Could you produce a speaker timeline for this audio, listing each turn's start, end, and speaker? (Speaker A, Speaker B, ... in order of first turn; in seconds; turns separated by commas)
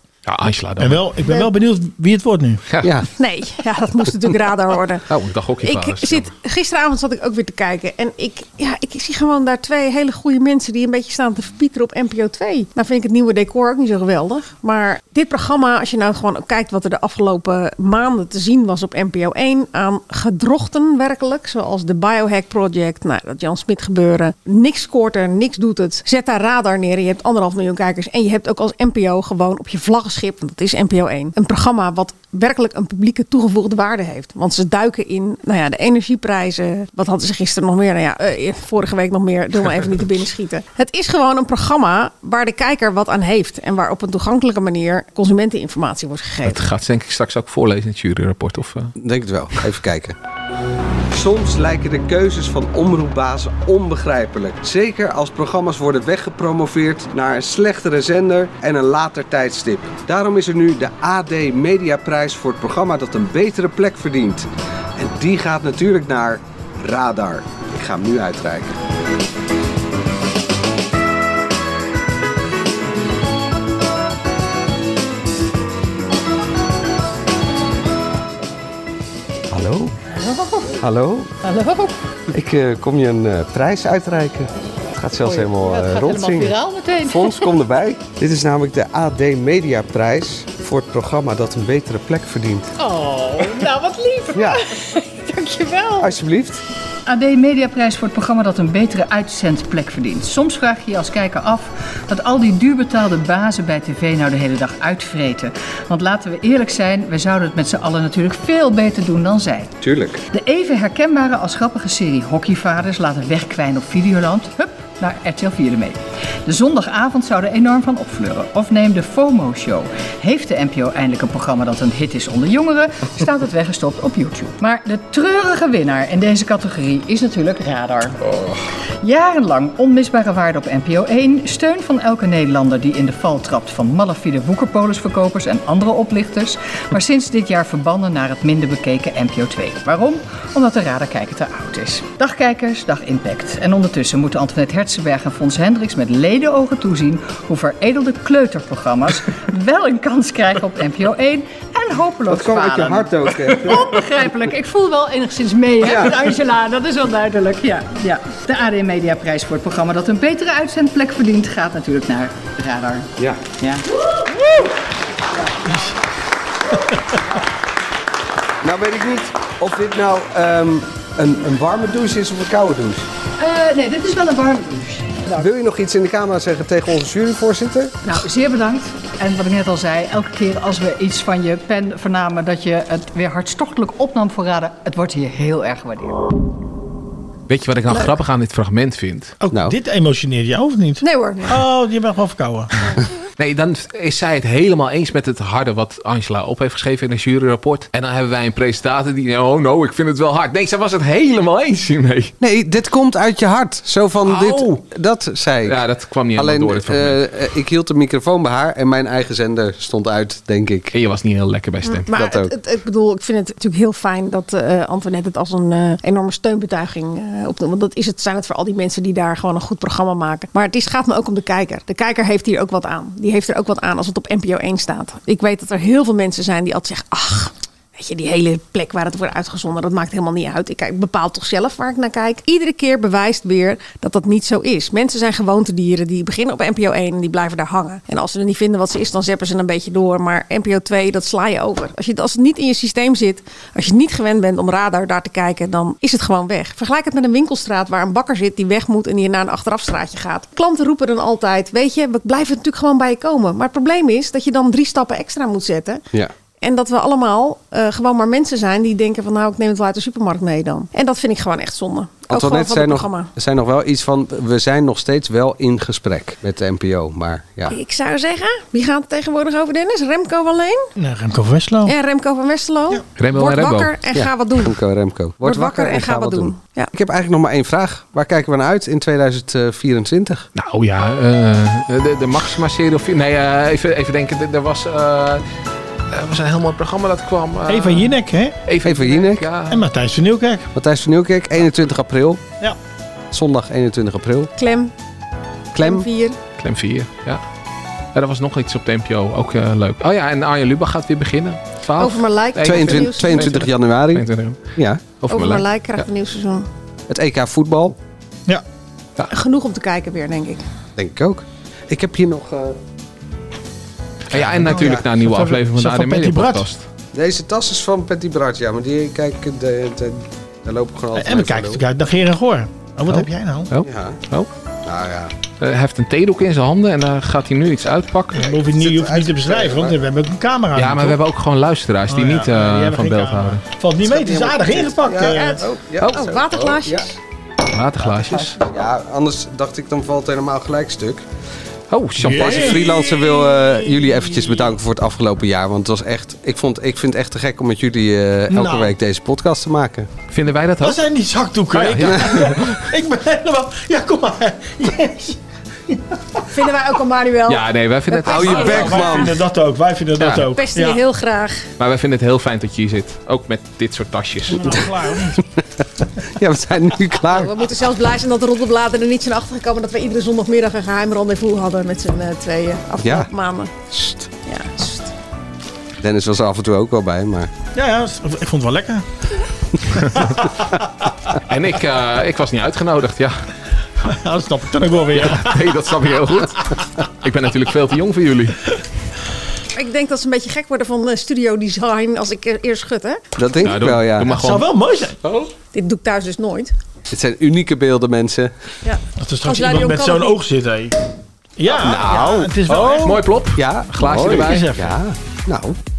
Speaker A: 0.2-1.0, Speaker B: 0.8-2.6, Speaker C: 2.8-3.1, Speaker D: 3.2-5.0, Speaker A: 5.1-6.3, Speaker D: 5.6-46.6, Speaker A: 46.4-48.9, Speaker C: 49.0-50.1, Speaker C: 51.1-68.7, Speaker C: 79.5-79.9, Speaker C: 80.8-81.3, Speaker E: 81.5-81.9, Speaker C: 82.3-92.7, Speaker E: 85.2-87.2, Speaker E: 92.8-94.5, Speaker C: 94.3-94.6, Speaker E: 95.3-96.0, Speaker C: 96.0-96.6, Speaker E: 97.1-109.7, Speaker C: 109.8-110.2, Speaker E: 110.3-128.2, Speaker E: 129.0-163.8, Speaker C: 152.3-153.9, Speaker C: 155.8-156.1, Speaker B: 165.6-165.9, Speaker C: 168.6-173.1, Speaker E: 173.4-175.4, Speaker C: 175.3-177.9, Speaker E: 178.0-186.2, Speaker A: 187.5-189.3, Speaker B: 189.4-192.7, Speaker D: 191.0-191.6, Speaker A: 193.4-202.3, Speaker C: 202.4-205.8, Speaker A: 204.2-204.8, Speaker A: 205.6-207.2, Speaker C: 206.3-210.9, Speaker A: 210.9-212.1, Speaker D: 211.8-256.0, Speaker C: 212.1-212.5, Speaker D: 256.6-263.3, Speaker C: 262.3-267.7, Speaker D: 267.7-270.9, Speaker B: 271.0-271.9, Speaker D: 271.9-274.7, Speaker A: 273.2-273.9, Speaker C: 274.1-280.5, Speaker D: 275.4-276.9, Speaker A: 280.5-285.4, Speaker A: 286.1-288.1, Speaker B: 287.7-288.6, Speaker A: 288.7-289.8, Speaker C: 288.8-289.5, Speaker B: 289.7-290.7, Speaker C: 290.8-292.4, Speaker C: 293.3-294.5, Speaker D: 294.6-294.9, Speaker C: 295.7-296.1, Speaker D: 295.8-296.4, Speaker A: 296.6-297.4, Speaker A: 298.1-304.6, Speaker D: 302.0-303.5, Speaker C: 302.6-305.0, Speaker A: 305.2-306.0, Speaker D: 305.3-306.6, Speaker C: 307.1-307.9, Speaker D: 309.3-310.6, Speaker C: 310.9-312.8, Speaker A: 314.3-316.8, Speaker B: 314.3-316.6, Speaker C: 314.7-315.0, Speaker C: 317.1-321.8, Speaker B: 321.1-323.7, Speaker A: 323.1-324.5, Speaker C: 323.8-324.2, Speaker C: 324.8-325.3, Speaker A: 325.6-328.5, Speaker B: 328.3-331.2, Speaker C: 328.8-329.9, Speaker A: 330.8-333.6, Speaker B: 332.1-335.6, Speaker C: 334.0-337.1, Speaker D: 335.3-337.1, Speaker A: 337.7-338.6, Speaker C: 338.3-341.2, Speaker A: 341.9-342.9, Speaker B: 342.2-344.7, Speaker C: 342.2-350.1, Speaker B: 348.5-348.9, Speaker A: 350.3-351.0, Speaker B: 350.8-355.4, Speaker A: 351.7-352.8, Speaker D: 356.5-359.3, Speaker A: 357.5-359.2, Speaker B: 358.3-361.0, Speaker C: 358.3-359.3, Speaker A: 360.2-360.4, Speaker D: 360.5-361.6, Speaker A: 361.8-364.8, Speaker B: 364.5-365.4, Speaker C: 366.4-367.5, Speaker D: 367.2-373.7, Speaker C: 373.0-373.3, Speaker C: 373.9-374.3, Speaker D: 374.4-375.1, Speaker C: 376.0-377.5, Speaker B: 377.7-379.0, Speaker B: 380.1-380.4, Speaker A: 381.5-383.4, Speaker B: 384.1-385.6, Speaker A: 385.2-388.7, Speaker D: 389.8-393.2, Speaker C: 393.4-394.3, Speaker A: 393.6-394.6, Speaker B: 394.3-395.2, Speaker D: 395.7-396.7, Speaker C: 397.1-398.5, Speaker D: 398.8-400.4, Speaker B: 399.2-400.9, Speaker B: 401.6-403.2, Speaker C: 401.8-403.0, Speaker A: 401.8-404.7, Speaker C: 403.6-405.8, Speaker B: 404.1-404.9